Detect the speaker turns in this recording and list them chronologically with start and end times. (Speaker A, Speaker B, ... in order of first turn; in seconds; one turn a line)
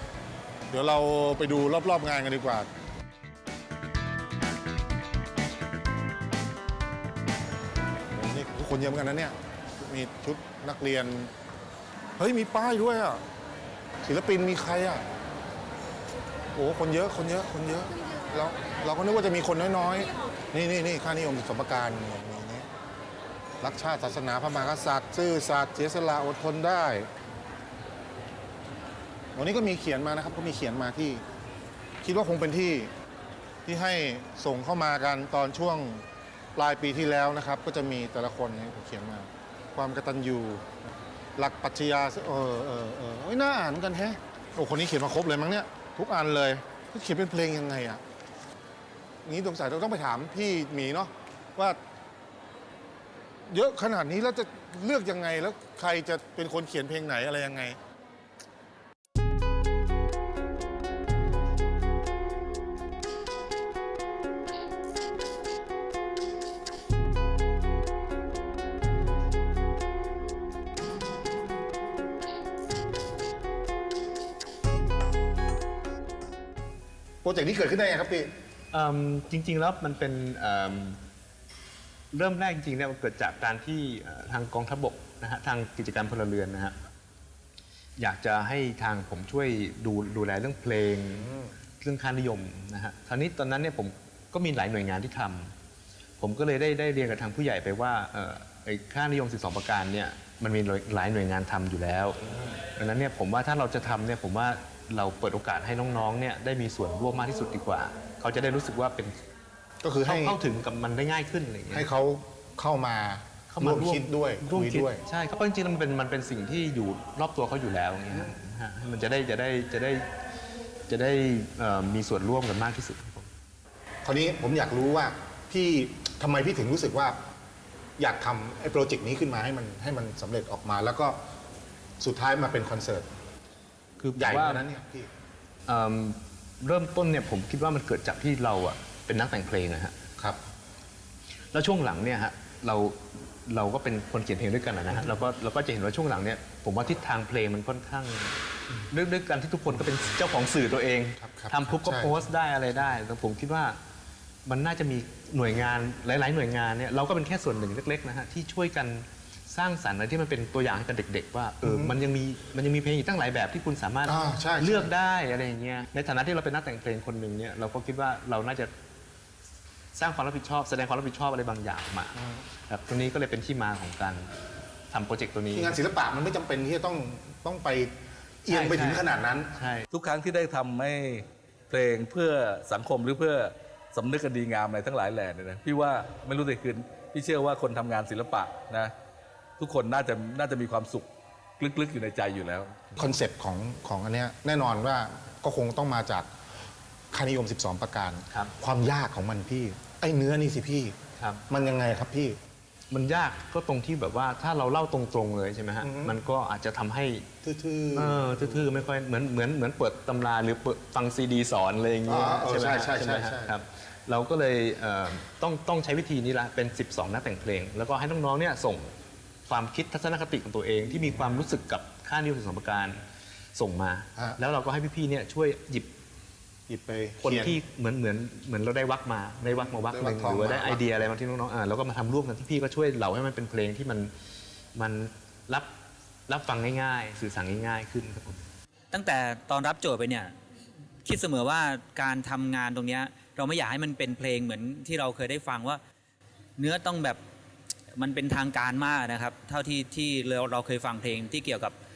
Speaker A: 0.7-2.7
Speaker A: 8.1-11.3
Speaker A: 12.2-13.2
Speaker A: 14.0-15.0
Speaker A: 16.5-22.6
Speaker A: 23.6-27.1
Speaker A: 29.3-31.2
Speaker A: 32.0-32.9
Speaker A: 33.6-40.6
Speaker A: 41.4-48.0
Speaker A: 49.2-51.8
Speaker A: 53.5-57.8
Speaker A: 77.2-78.3
Speaker B: 78.7-81.0
Speaker B: 82.1-86.8
Speaker B: 88.0-91.3
Speaker A: 91.2-91.5
Speaker B: 91.8-95.5
Speaker B: 96.2-102.2
Speaker A: 102.2-102.6
Speaker B: 102.7-109.2
Speaker A: 109.8-110.4
Speaker B: 110.0-111.9
Speaker A: 111.7-115.0
Speaker B: 113.5-120.0
Speaker B: 120.9-123.3
Speaker A: 124.0-127.2
Speaker A: 128.0-131.2
Speaker A: 132.0-133.1
Speaker B: 134.0-134.6
Speaker A: 134.1-135.1
Speaker B: 135.7-140.0
Speaker B: 141.5-148.4
Speaker B: 148.9-153.8
Speaker A: 151.2-152.2
Speaker B: 154.4-168.7
Speaker A: 161.6-162.0
Speaker A: 164.1-164.9
Speaker B: 169.9-174.3
Speaker A: 172.2-172.4
Speaker B: 174.9-175.7
Speaker A: 175.5-179.5
Speaker B: 178.5-179.8
Speaker C: 179.9-188.9
Speaker C: 189.6-191.1
Speaker C: 191.6-192.8
Speaker A: 193.0-196.3
Speaker A: 197.1-200.9
Speaker B: 201.2-201.4
Speaker A: 201.5-202.4
Speaker B: 202.9-207.3
Speaker A: 205.8-206.2
Speaker A: 207.4-208.7
Speaker B: 207.9-218.9
Speaker A: 212.1-213.5
Speaker B: 219.5-223.0
Speaker B: 223.5-225.9
Speaker A: 226.7-227.6
Speaker B: 227.2-234.1
Speaker A: 229.4-230.8
Speaker B: 234.7-235.7
Speaker B: 236.3-238.4
Speaker D: 238.9-240.3
Speaker D: 241.0-245.8
Speaker D: 246.6-247.2
Speaker D: 247.9-251.7